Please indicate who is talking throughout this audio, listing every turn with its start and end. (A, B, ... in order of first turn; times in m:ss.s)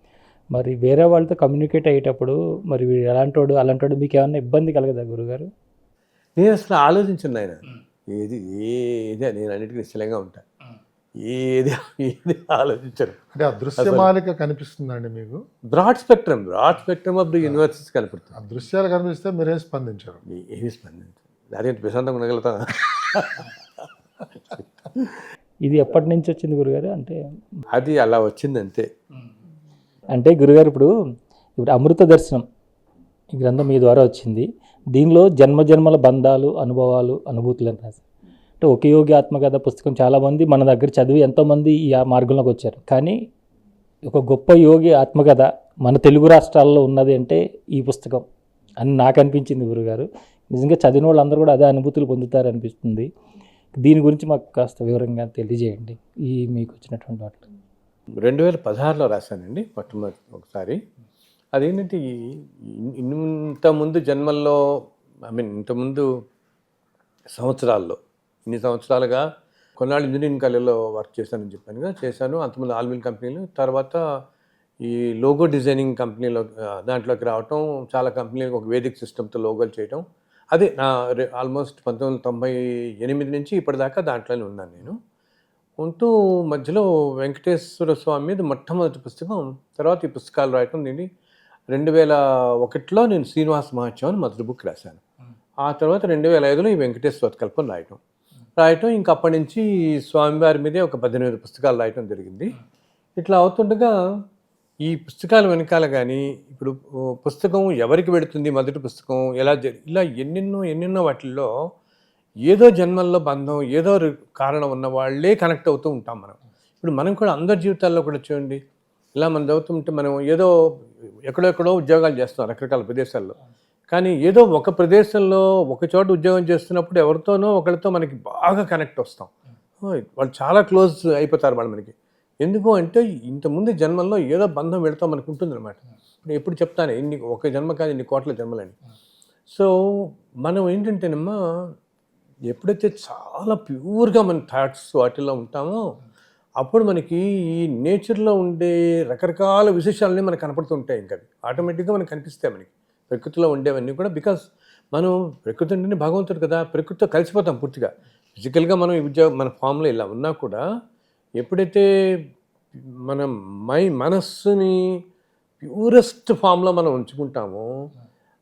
0:00.5-0:05.5 A
0:06.4-0:07.6 B
0:08.1-0:10.4 B
0:11.2-0:13.2 B
0:13.3-0:15.4 C
0:13.8-0:14.1 B
0:15.7-0:18.3 B
0:18.3-0:20.2 C
0:20.3-0:23.5 B
0:24.2-0:25.1 B
0:25.6-0:27.2 A
0:27.7-0:28.9 B
0:30.1-0:30.9 A
0:31.6-0:32.4 A
0:33.3-0:38.0 A
0:38.6-0:43.2 A
0:44.1-0:48.2 A
0:48.8-0:53.1 A
0:53.8-0:57.4 A
0:58.2-1:00.8 B
1:01.5-1:04.6 B
1:05.3-1:06.1 B
1:07.3-1:09.2 B
1:09.8-1:14.0 B
1:14.8-1:20.0 B
1:20.5-1:25.0 B
1:25.8-1:31.1 B
1:31.7-1:35.0 B
1:35.6-1:38.0 B
1:38.6-1:42.5 B
1:43.2-1:43.9 B
1:44.8-1:51.5 B
1:52.5-1:58.6 B
1:59.2-2:00.5 B
2:01.3-2:03.4 B
2:03.9-2:18.8 B
2:20.4-2:21.3 B
2:22.5-2:25.8 B
2:26.6-2:40.6 B
2:41.4-2:41.8 B
2:43.0-2:44.8 B
2:45.7-2:47.6 B